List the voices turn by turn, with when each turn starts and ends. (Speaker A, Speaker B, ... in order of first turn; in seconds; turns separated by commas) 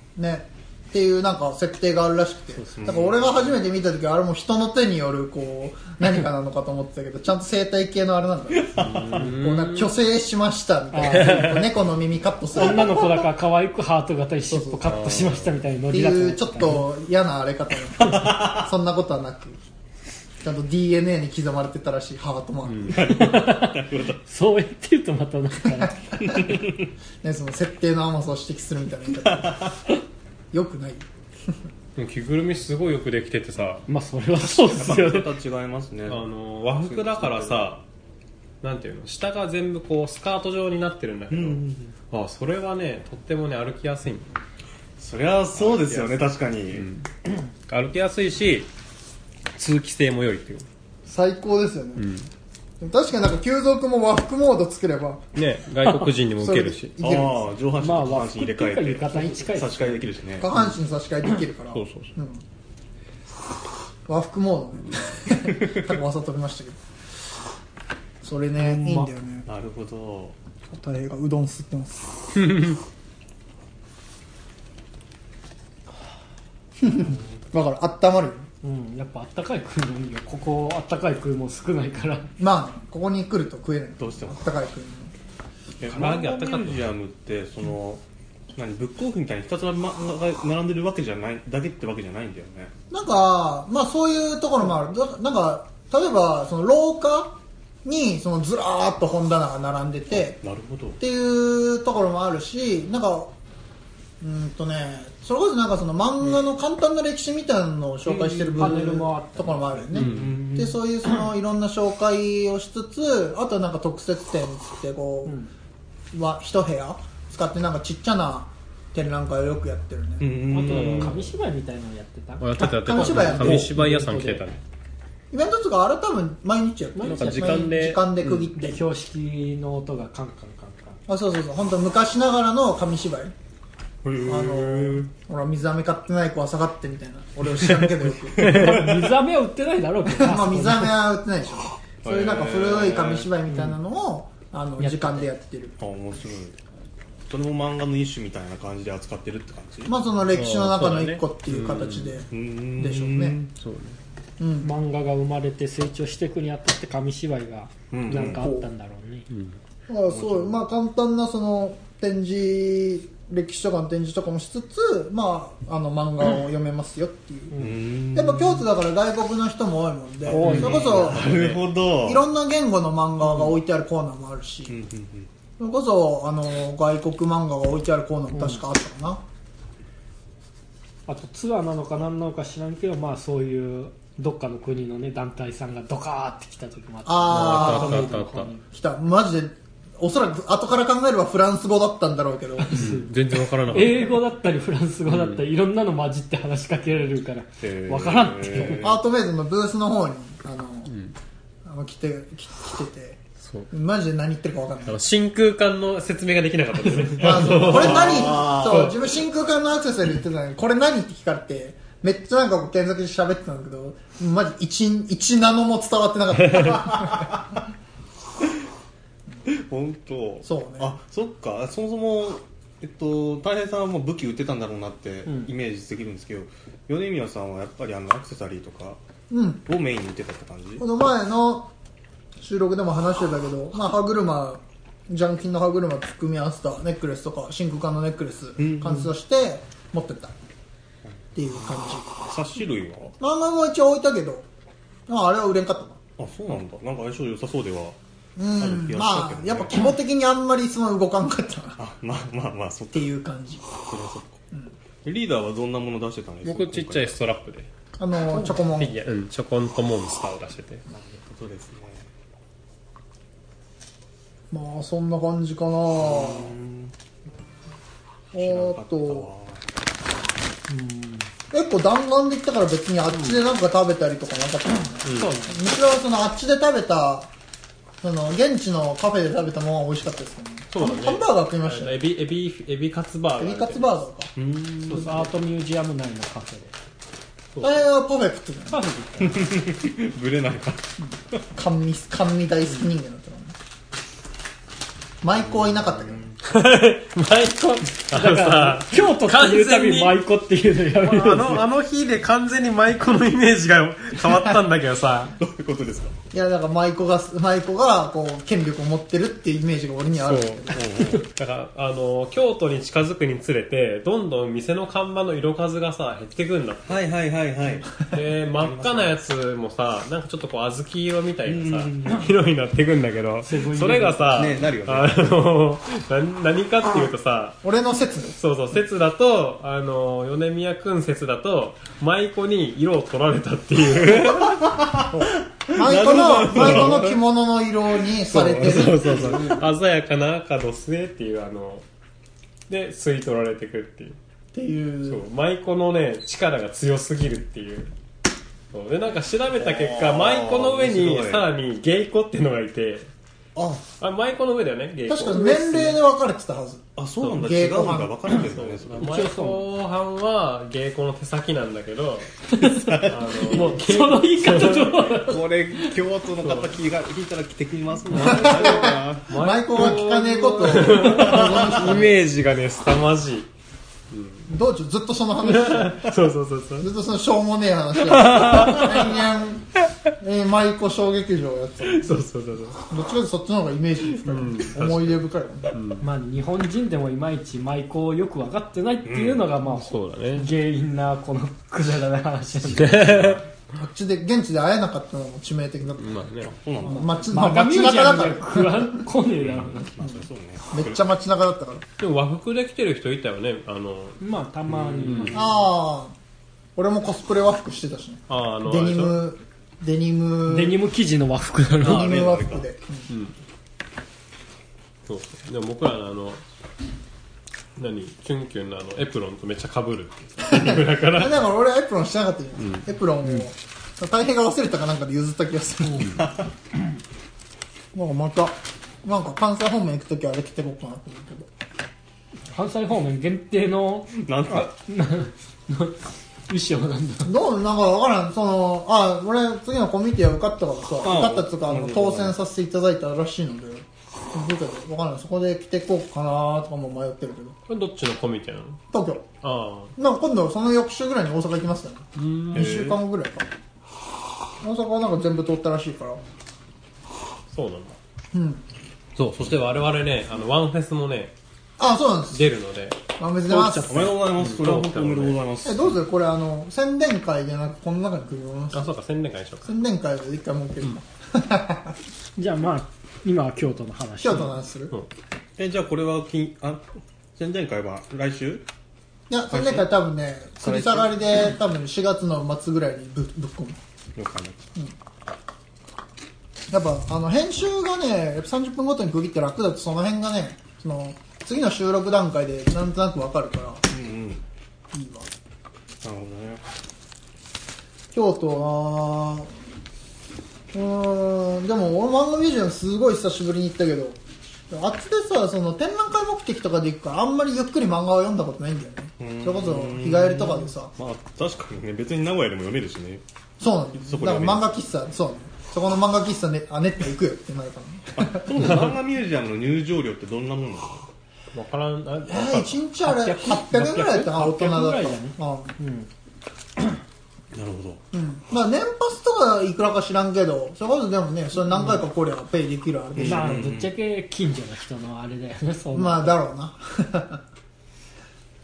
Speaker A: 0.1-13.2, Speaker B: 2.8-3.5, Speaker B: 8.6-9.2, Speaker C: 8.8-9.9, Speaker D: 10.9-11.4, Speaker C: 11.1-11.6, Speaker D: 12.5-16.8, Speaker A: 14.5-14.9, Speaker C: 14.8-15.5, Speaker A: 15.9-19.6, Speaker B: 18.1-18.6, Speaker A: 20.4-23.1, Speaker C: 22.6-23.0, Speaker B: 22.9-24.2, Speaker D: 23.1-26.3, Speaker B: 26.2-26.9, Speaker A: 27.2-29.7, Speaker B: 29.2-29.8, Speaker A: 30.5-31.1, Speaker C: 31.9-33.8, Speaker D: 33.9-35.3, Speaker B: 34.3-36.2, Speaker C: 36.1-37.8, Speaker B: 36.8-37.7, Speaker C: 38.6-44.3, Speaker B: 41.3-41.9, Speaker B: 45.0-46.9, Speaker C: 45.5-48.7, Speaker C: 49.5-50.6, Speaker A: 51.0-52.0, Speaker C: 52.0-52.3, Speaker A: 52.8-55.2, Speaker C: 55.3-57.0, Speaker A: 56.4-57.4, Speaker B: 57.0-60.5, Speaker D: 57.8-60.0, Speaker A: 60.4-62.4, Speaker C: 61.7-62.1, Speaker A: 64.1-66.8, Speaker A: 68.2-69.5, Speaker B: 68.6-70.3, Speaker A: 70.7-72.5, Speaker C: 72.3-72.8, Speaker A: 76.8-78.5, Speaker B: 76.9-77.2, Speaker D: 78.6-82.3, Speaker A: 82.4-85.1, Speaker B: 84.0-84.5, Speaker B: 85.8-88.0, Speaker C: 85.8-86.9, Speaker B: 88.5-92.7, Speaker A: 92.9-100.4, Speaker B: 100.1-101.0, Speaker A: 101.0-103.3, Speaker A: 104.2-115.3, Speaker D: 108.0-110.1, Speaker C: 109.9-110.4, Speaker B: 109.9-110.7, Speaker D: 115.2-115.5, Speaker A: 116.1-120.4, Speaker B: 120.2-121.3, Speaker D: 120.5-124.4, Speaker C: 120.7-121.2, Speaker C: 122.4-124.6, Speaker A: 122.6-123.7, Speaker A: 125.3-128.8, Speaker D: 126.9-127.7, Speaker C: 127.0-128.5, Speaker D: 128.5-131.0, Speaker A: 131.1-133.3, Speaker B: 134.0-135.1, Speaker A: 134.2-138.8, Speaker B: 138.3-139.1, Speaker D: 138.4-140.9, Speaker A: 140.1-145.8, Speaker B: 142.0-143.3, Speaker D: 144.8-145.3, Speaker B: 145.8-146.6, Speaker B: 147.3-149.9, Speaker A: 149.8-153.4, Speaker C: 150.3-152.2, Speaker B: 152.3-153.5, Speaker C: 153.6-154.0, Speaker A: 154.4-154.7, Speaker D: 154.6-159.3, Speaker B: 157.9-158.5, Speaker A: 158.1-158.7, Speaker C: 159.3-159.6, Speaker A: 159.9-174.8, Speaker B: 160.1-160.6, Speaker D: 167.5-167.8, Speaker B: 167.5-168.7, Speaker B: 170.2-172.3, Speaker D: 170.3-171.1, Speaker C: 170.3-171.6, Speaker B: 174.7-175.3, Speaker A: 175.6-179.2, Speaker D: 178.3-178.6, Speaker D: 181.1-188.6, Speaker A: 187.1-188.1, Speaker C: 187.3-188.5, Speaker A: 188.7-192.9, Speaker D: 192.6-198.8, Speaker C: 192.7-194.2, Speaker C: 195.1-195.4, Speaker B: 197.6-199.0, Speaker A: 198.8-200.9, Speaker C: 200.9-201.1, Speaker A: 201.6-205.0, Speaker C: 203.4-203.7, Speaker C: 204.8-209.0, Speaker A: 207.2-217.4, Speaker B: 207.4-208.9, Speaker C: 216.5-216.7, Speaker B: 219.4-229.0, Speaker A: 220.4-221.0, Speaker A: 229.3-229.6, Speaker B: 229.7-230.8, Speaker A: 230.8-231.7, Speaker A: 232.4-240.3, Speaker B: 238.6-239.1, Speaker A: 241.3-242.1, Speaker B: 242.2-243.1, Speaker A: 243.2-244.5, Speaker A: 245.1-246.0, Speaker B: 246.2-247.9, Speaker A: 248.4-251.8, Speaker B: 248.6-249.8, Speaker B: 251.8-253.1, Speaker A: 252.9-253.6, Speaker B: 253.8-254.4, Speaker B: 255.0-257.1, Speaker C: 256.4-257.7, Speaker A: 258.0-259.0, Speaker C: 258.6-260.8, Speaker B: 260.9-262.1, Speaker A: 264.5-266.5, Speaker B: 265.9-266.9, Speaker B: 268.3-269.6, Speaker A: 268.3-269.3, Speaker D: 270.7-271.3, Speaker A: 271.5-277.3, Speaker C: 275.0-275.4, Speaker D: 275.1-275.6, Speaker A: 278.0-282.0, Speaker C: 280.7-283.9, Speaker A: 283.4-284.3, Speaker B: 284.4-285.3, Speaker D: 284.9-286.7, Speaker C: 287.5-287.8, Speaker A: 287.6-288.8, Speaker D: 288.7-289.6, Speaker B: 289.2-290.9, Speaker A: 291.0-293.6, Speaker A: 295.2-296.2, Speaker B: 295.4-296.4, Speaker C: 296.4-300.2, Speaker D: 298.1-301.6, Speaker C: 301.0-305.4, Speaker B: 305.4-306.1, Speaker A: 306.3-310.9, Speaker C: 310.2-317.0, Speaker B: 310.7-311.3, Speaker B: 316.9-319.2, Speaker C: 318.0-327.6, Speaker B: 321.4-322.3, Speaker D: 323.4-324.4, Speaker B: 324.3-325.4, Speaker A: 327.6-328.3, Speaker C: 328.3-334.6, Speaker B: 334.1-337.2, Speaker A: 335.1-339.5, Speaker C: 336.5-336.9, Speaker C: 338.3-341.8, Speaker B: 339.1-339.6, Speaker C: 342.7-344.2, Speaker A: 344.5-345.2, Speaker C: 345.0-347.9, Speaker C: 348.7-353.1, Speaker B: 349.5-351.5, Speaker B: 353.6-353.8, Speaker C: 354.0-356.0, Speaker A: 355.1-358.2, Speaker B: 357.0-359.2, Speaker C: 357.2-357.5, Speaker C: 358.3-365.2, Speaker D: 359.0-359.6, Speaker D: 362.5-365.9, Speaker B: 362.7-363.8, Speaker B: 365.2-369.3, Speaker C: 366.4-366.8, Speaker C: 368.1-373.5, Speaker A: 368.1-372.1, Speaker B: 371.0-372.0, Speaker C: 374.1-374.5, Speaker A: 374.5-376.1, Speaker C: 375.4-376.9, Speaker A: 376.8-382.2, Speaker C: 378.1-379.1, Speaker C: 381.8-382.8, Speaker A: 382.9-385.8, Speaker C: 384.2-386.0, Speaker D: 386.0-393.1, Speaker B: 389.0-389.5, Speaker C: 389.6-390.5, Speaker C: 392.7-393.4, Speaker B: 393.0-393.4, Speaker A: 393.7-396.2, Speaker C: 396.0-396.5, Speaker B: 396.4-397.2, Speaker A: 396.8-399.0, Speaker D: 397.3-399.9, Speaker B: 399.4-401.0, Speaker A: 400.0-401.8, Speaker C: 402.0-404.2, Speaker D: 404.2-405.6, Speaker C: 404.7-405.5, Speaker B: 404.7-405.3, Speaker A: 405.3-406.1, Speaker A: 406.8-410.8, Speaker C: 408.3-409.2, Speaker D: 410.4-412.2, Speaker B: 411.8-412.6, Speaker A: 411.8-413.1, Speaker C: 413.1-413.3, Speaker C: 415.1-416.4, Speaker C: 417.8-421.4, Speaker A: 420.5-426.2, Speaker C: 422.6-422.9, Speaker B: 426.0-426.5, Speaker A: 427.9-431.5, Speaker D: 432.5-437.3, Speaker B: 434.1-434.7, Speaker A: 437.2-447.6, Speaker B: 441.0-442.4, Speaker C: 447.7-448.8, Speaker A: 448.9-449.3, Speaker C: 449.4-449.9, Speaker A: 449.9-453.5, Speaker C: 452.1-452.9, Speaker B: 452.5-453.0, Speaker A: 454.6-456.2, Speaker C: 457.5-458.0, Speaker A: 458.3-458.6, Speaker C: 459.2-461.3, Speaker A: 461.8-462.5, Speaker C: 462.3-463.0, Speaker A: 463.2-464.1, Speaker D: 463.5-464.0, Speaker B: 463.8-466.0, Speaker C: 464.1-465.4, Speaker A: 465.6-468.9, Speaker C: 468.7-469.7, Speaker A: 469.6-471.9, Speaker D: 472.4-474.6, Speaker A: 474.2-474.9, Speaker B: 475.6-478.6, Speaker A: 479.3-483.8, Speaker B: 479.5-479.9, Speaker B: 480.6-481.1, Speaker B: 484.1-484.6, Speaker A: 486.7-493.8, Speaker B: 493.9-494.4, Speaker A: 494.9-495.3, Speaker B: 496.0-496.6, Speaker A: 498.1-499.5, Speaker A: 500.7-504.2, Speaker A: 504.7-510.9, Speaker B: 509.2-513.2, Speaker A: 513.6-518.5, Speaker B: 514.0-514.7, Speaker B: 518.1-521.1, Speaker C: 518.5-519.0, Speaker C: 521.5-522.8, Speaker A: 522.3-525.8, Speaker D: 523.0-526.1, Speaker B: 527.5-528.0, Speaker A: 528.1-533.7, Speaker B: 533.1-533.9, Speaker D: 533.2-536.4, Speaker A: 535.9-537.4